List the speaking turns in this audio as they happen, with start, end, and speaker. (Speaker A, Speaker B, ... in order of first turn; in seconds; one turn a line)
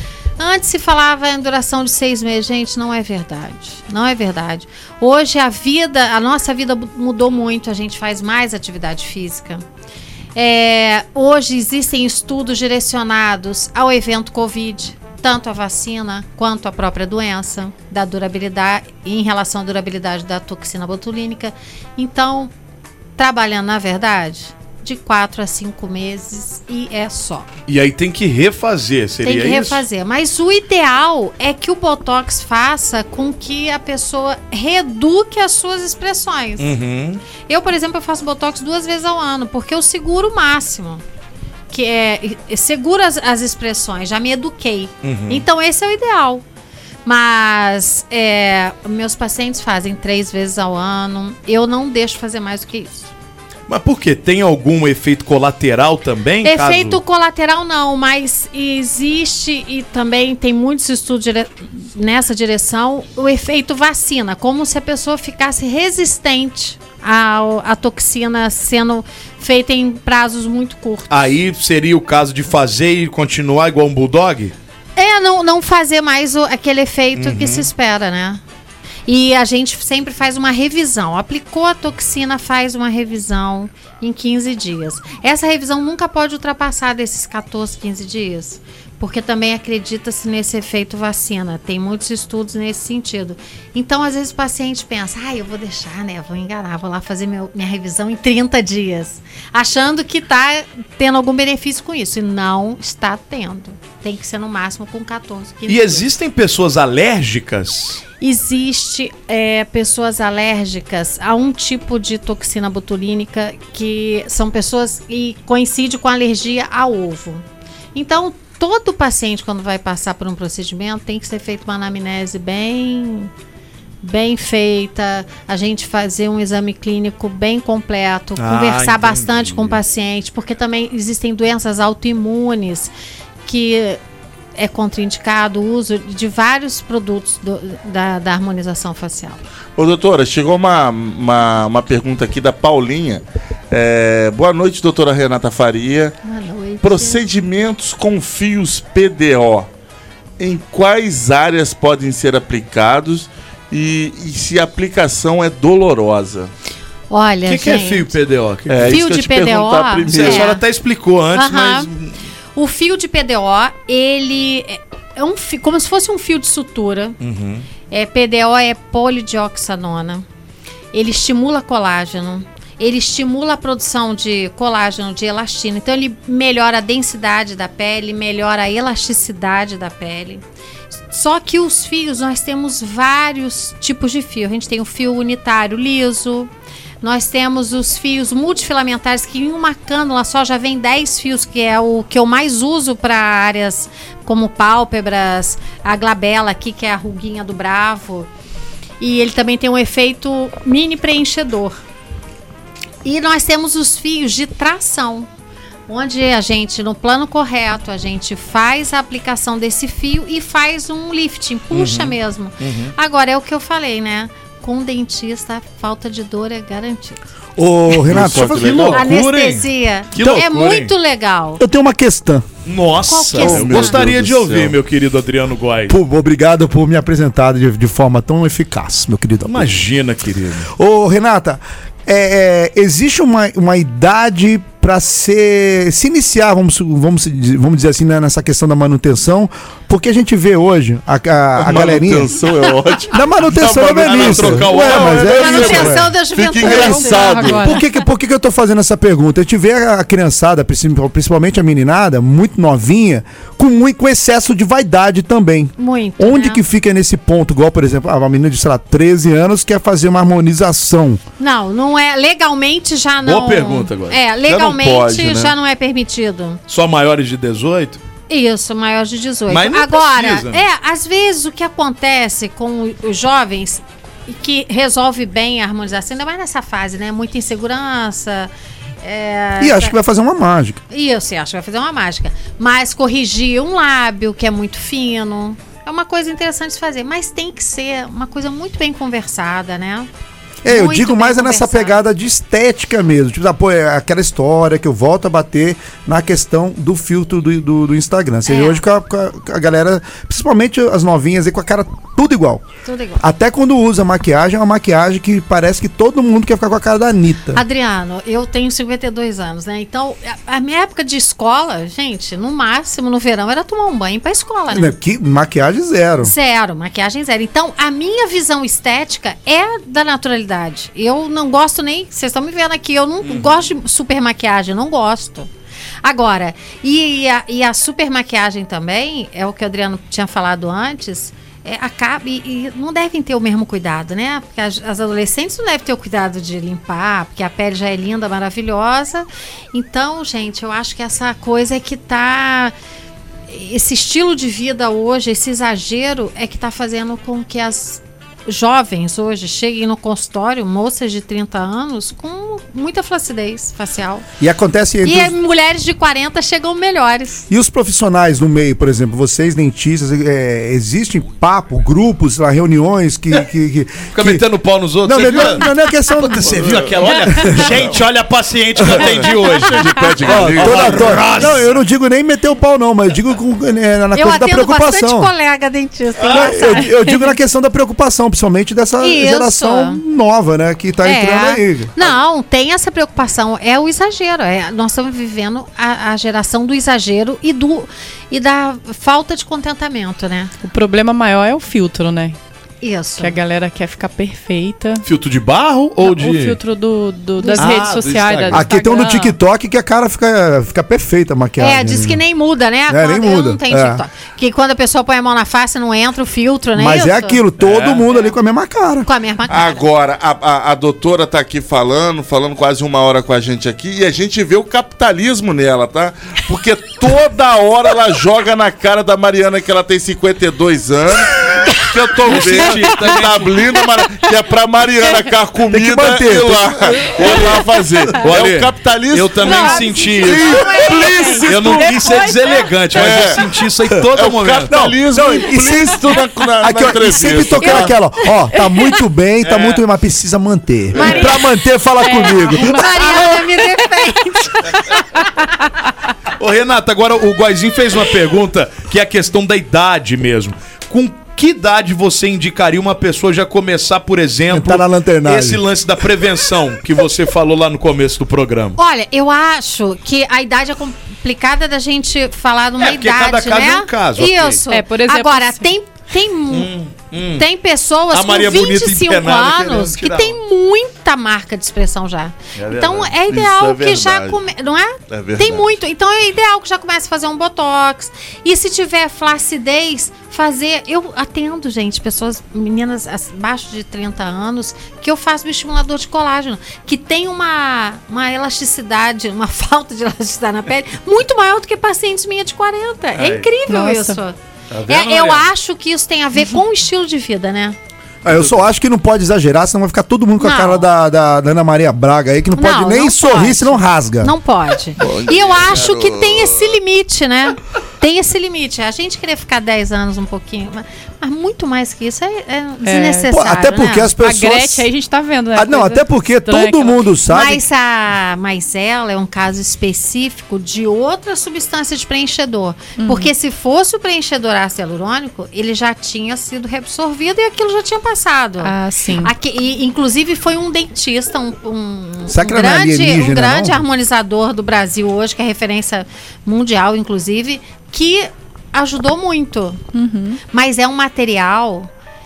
Speaker A: 0.4-9.6
Speaker A: 10.3-22.5
Speaker A: 23.2-27.5
Speaker B: 27.7-29.8
Speaker A: 29.2-36.7
Speaker B: 36.6-37.2
Speaker A: 37.5-41.0
Speaker A: 41.7-46.4
Speaker B: 45.0-45.5
Speaker A: 47.0-53.1
Speaker B: 53.7-57.0
Speaker A: 56.4-71.2
Speaker B: 71.1-74.5
Speaker A: 75.0-78.4
Speaker B: 77.2-77.7
Speaker A: 79.0-106.1
Speaker B: 105.7-108.0
Speaker A: 108.2-117.4
Speaker A: 117.9-123.3
Speaker A: 124.0-132.9
Speaker B: 128.4-129.8
Speaker A: 133.4-134.0
Speaker A: 134.6-139.4
Speaker C: 139.8-146.2
Speaker A: 146.2-147.2
Speaker C: 146.8-149.7
Speaker C: 150.4-156.5
Speaker A: 157.1-158.1
Speaker B: 157.4-159.0
Speaker C: 158.7-160.6
Speaker A: 158.9-160.6
Speaker B: 160.1-162.2
Speaker A: 161.3-161.9
Speaker A: 162.5-167.2
Speaker B: 167.2-167.7
Speaker A: 167.9-170.2
Speaker A: 170.9-180.4
Speaker A: 181.1-186.5
Speaker A: 187.0-198.3
Speaker A: 199.0-201.8
Speaker A: 203.0-205.3
Speaker A: 205.9-217.2
Speaker B: 211.7-212.9
Speaker D: 217.6-219.0
Speaker C: 218.0-219.1
Speaker A: 218.9-221.6
Speaker B: 218.9-220.9
Speaker D: 221.6-222.4
Speaker B: 222.6-225.9
Speaker A: 223.0-224.1
Speaker C: 223.4-224.8
Speaker D: 225.9-229.7
Speaker B: 229.4-230.7
Speaker D: 230.7-242.3
Speaker C: 241.6-247.7
Speaker D: 243.1-261.2
Speaker B: 243.7-245.8
Speaker A: 245.2-247.7
Speaker E: 246.7-247.8
Speaker A: 255.8-256.6
Speaker A: 261.4-266.6
Speaker B: 263.2-264.2
Speaker C: 264.4-265.5
Speaker B: 266.7-268.0
Speaker A: 268.3-278.5
Speaker B: 269.5-270.6
Speaker A: 279.0-279.9
Speaker D: 279.6-280.8
Speaker A: 280.9-290.1
Speaker D: 290.6-302.6
Speaker A: 290.6-291.9
Speaker A: 298.5-298.8
Speaker A: 302.8-303.2
Speaker D: 303.2-307.6
Speaker A: 307.5-314.9
Speaker D: 314.7-316.3
Speaker A: 316.2-325.5
Speaker B: 323.2-323.6
Speaker A: 326.0-342.7
Speaker A: 343.5-354.2
Speaker D: 354.4-355.3
Speaker A: 355.0-357.4
Speaker D: 357.5-364.4
Speaker B: 364.1-371.8
Speaker D: 365.0-367.9
Speaker D: 368.8-369.1
Speaker C: 368.9-371.4
Speaker D: 370.2-375.3
Speaker A: 374.1-377.2
Speaker B: 376.2-376.5
Speaker D: 376.2-381.9
Speaker A: 379.0-380.0
Speaker A: 381.0-390.5
Speaker E: 390.6-392.4
Speaker A: 392.8-393.4
Speaker E: 393.2-395.0
Speaker B: 395.0-396.6
Speaker E: 396.0-399.3
Speaker A: 397.4-397.8
Speaker B: 397.6-398.6
Speaker D: 398.5-402.2
Speaker A: 401.6-407.4
Speaker D: 402.9-404.0
Speaker D: 406.7-409.1
Speaker B: 407.6-408.1
Speaker A: 409.0-409.9
Speaker C: 409.5-431.9
Speaker B: 421.9-423.5
Speaker D: 425.7-427.4
Speaker B: 428.2-430.5
Speaker A: 429.4-431.4
Speaker D: 430.4-431.3
Speaker E: 430.8-432.6
Speaker B: 431.4-434.8
Speaker C: 432.9-433.4
Speaker C: 434.1-437.9
Speaker D: 434.7-443.2
Speaker B: 439.4-439.8
Speaker A: 441.0-441.3
Speaker E: 441.0-441.3
Speaker E: 442.0-443.4
Speaker A: 442.5-444.8
Speaker B: 446.4-458.8
Speaker D: 454.5-455.6
Speaker A: 458.8-466.7
Speaker B: 462.8-464.6
Speaker E: 464.7-465.7
Speaker B: 466.5-467.4
Speaker A: 467.4-497.8
Speaker B: 468.1-470.4
Speaker C: 472.7-474.4
Speaker C: 475.1-475.7
Speaker B: 493.1-493.5
Speaker E: 493.7-494.2
Speaker B: 494.7-495.5
Speaker D: 498.2-504.3
Speaker A: 500.4-500.9
Speaker A: 502.6-514.1
Speaker C: 505.0-506.7
Speaker E: 512.8-513.3
Speaker D: 513.3-514.9
Speaker E: 514.1-517.1
Speaker D: 515.5-517.6
Speaker A: 517.3-539.8
Speaker E: 523.0-523.3
Speaker E: 528.6-529.3
Speaker D: 532.3-533.8
Speaker E: 539.9-540.4
Speaker A: 540.5-541.9